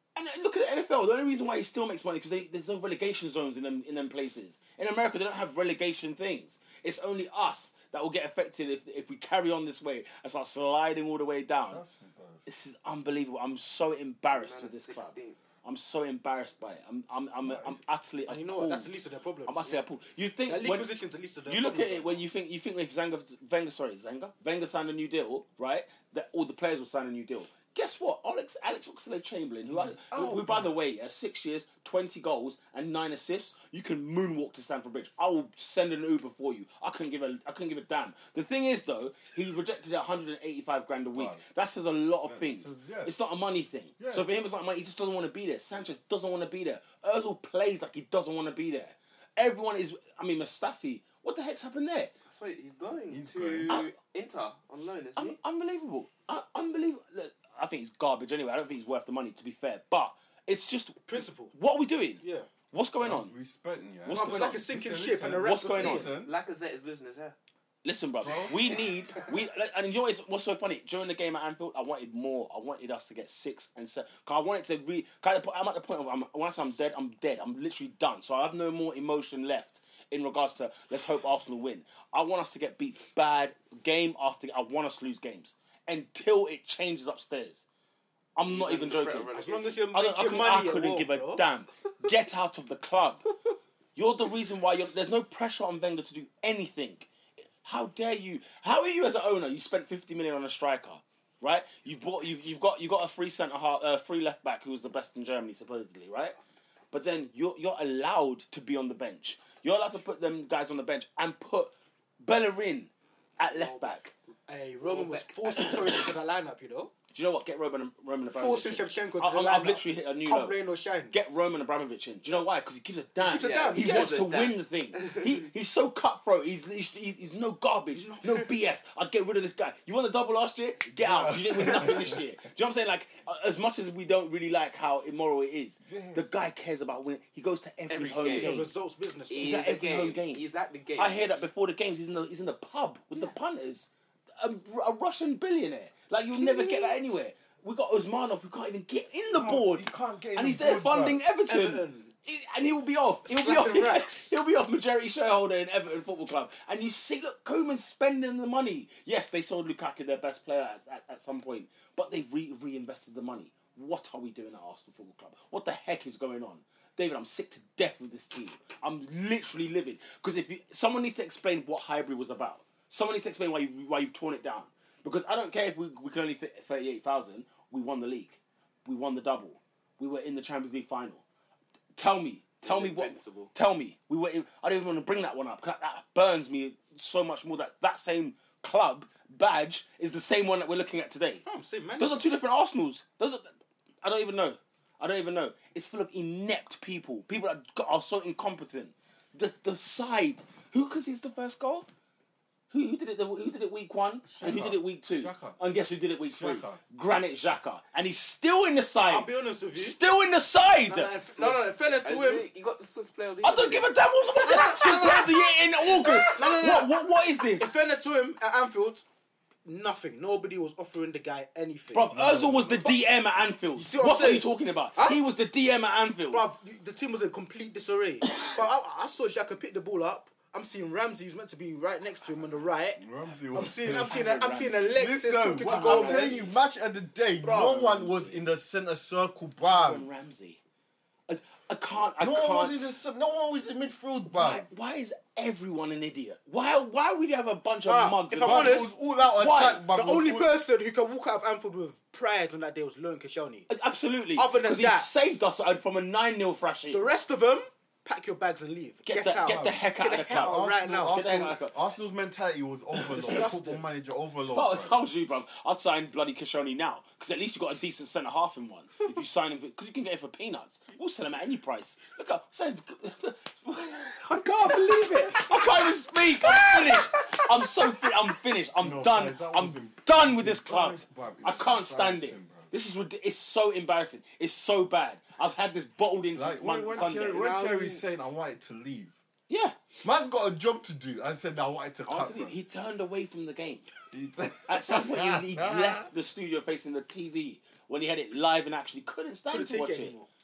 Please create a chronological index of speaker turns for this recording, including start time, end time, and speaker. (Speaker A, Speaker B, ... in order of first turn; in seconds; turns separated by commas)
Speaker A: 0.1-11.8, Speaker B: 11.6-12.4, Speaker A: 12.5-20.9, Speaker C: 14.3-15.4, Speaker B: 17.4-17.8, Speaker D: 18.3-19.8, Speaker D: 20.5-22.3, Speaker A: 21.5-52.1, Speaker B: 29.7-30.7, Speaker B: 41.1-41.4, Speaker B: 42.3-43.1, Speaker B: 44.0-44.3, Speaker C: 52.3-55.4, Speaker B: 53.1-53.8, Speaker A: 55.2-63.3, Speaker D: 61.1-61.5, Speaker D: 62.2-62.5, Speaker B: 63.0-66.3, Speaker A: 64.1-64.6, Speaker D: 64.1-66.2, Speaker A: 65.4-66.1, Speaker C: 66.2-67.3, Speaker A: 67.8-87.7, Speaker B: 68.2-68.6, Speaker A: 88.4-89.3, Speaker C: 88.4-89.9, Speaker D: 89.3-91.4, Speaker A: 89.9-93.3, Speaker A: 94.0-97.1, Speaker A: 97.6-106.4, Speaker A: 106.9-114.1, Speaker C: 113.5-114.0, Speaker D: 114.5-116.9, Speaker C: 114.8-116.0, Speaker A: 117.1-120.6, Speaker D: 118.4-121.2, Speaker A: 121.1-138.7, Speaker D: 123.2-124.2, Speaker C: 123.4-125.3, Speaker D: 127.9-128.5, Speaker B: 131.0-132.2, Speaker B: 135.8-136.2, Speaker C: 137.9-138.6, Speaker D: 138.1-139.7, Speaker C: 139.3-141.3, Speaker A: 139.4-140.4, Speaker A: 141.0-181.2, Speaker B: 149.3-151.2, Speaker D: 151.5-152.1, Speaker D: 153.3-154.4, Speaker A: 182.0-191.4, Speaker C: 182.6-183.5, Speaker D: 191.4-192.3, Speaker A: 192.0-193.5, Speaker A: 194.0-201.9, Speaker A: 202.7-211.3, Speaker B: 204.3-205.6, Speaker B: 206.3-206.8, Speaker D: 209.1-210.0, Speaker D: 210.9-212.5, Speaker C: 210.9-213.9, Speaker A: 213.4-217.7, Speaker D: 214.4-219.1, Speaker D: 219.7-222.1, Speaker A: 221.9-226.4, Speaker B: 222.1-222.9, Speaker D: 223.8-225.2, Speaker D: 226.3-236.5, Speaker B: 233.0-234.3, Speaker A: 233.9-235.0, Speaker B: 234.9-240.1, Speaker A: 235.5-236.5, Speaker D: 237.4-238.3, Speaker A: 238.1-238.4, Speaker A: 239.6-240.6, Speaker A: 241.3-242.8, Speaker B: 242.2-244.7, Speaker A: 244.3-249.9, Speaker D: 247.8-248.9, Speaker B: 248.4-250.6, Speaker D: 249.9-253.7, Speaker A: 253.7-257.0, Speaker D: 254.3-255.1, Speaker D: 256.9-261.2, Speaker A: 259.1-261.7, Speaker B: 259.4-265.0, Speaker D: 263.1-263.8, Speaker A: 263.1-263.5, Speaker A: 264.5-287.5, Speaker C: 274.7-275.0, Speaker B: 278.8-282.7, Speaker B: 286.4-289.2, Speaker C: 286.9-288.0, Speaker A: 289.5-289.8, Speaker B: 290.0-292.6, Speaker A: 292.1-293.9, Speaker B: 294.1-296.1, Speaker A: 294.7-300.2, Speaker D: 299.5-300.3